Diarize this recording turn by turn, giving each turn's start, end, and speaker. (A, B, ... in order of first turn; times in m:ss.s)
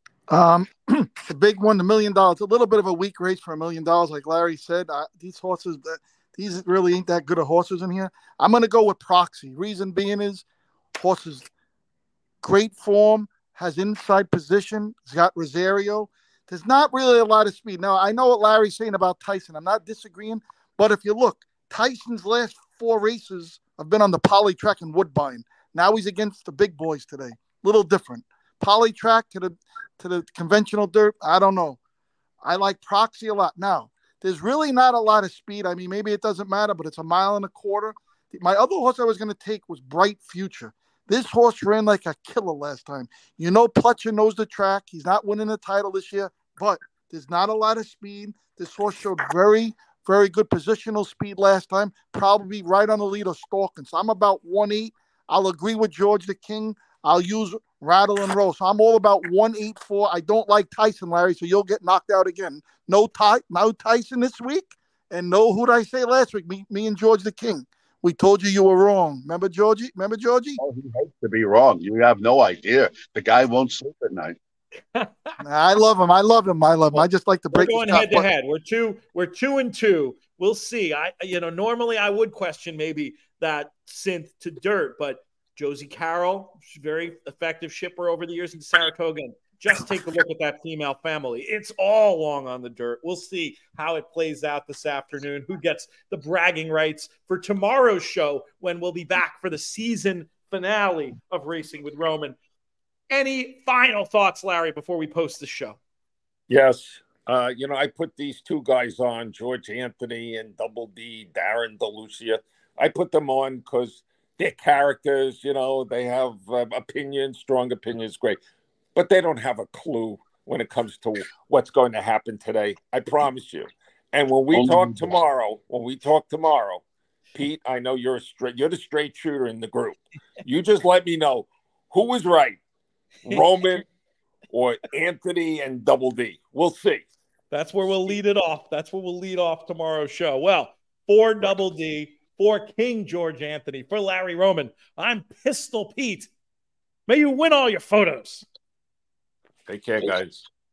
0:00.3-0:10.4 A
0:11.0-0:11.5 A
0:12.4-0:31.8 A
0:32.4-1:10.6 A
1:10.6-1:14.4 B
1:15.4-1:18.3 A
1:17.5-1:42.4 C
1:43.1-1:45.8 C
1:46.5-1:58.4 D
1:58.9-2:06.8 D
2:04.5-2:05.1 B
2:07.3-2:12.6 D
2:13.2-2:13.9 D
2:14.5-2:17.0 D
2:17.5-2:26.3 C
2:27.1-2:28.4 C
2:29.7-2:30.5 D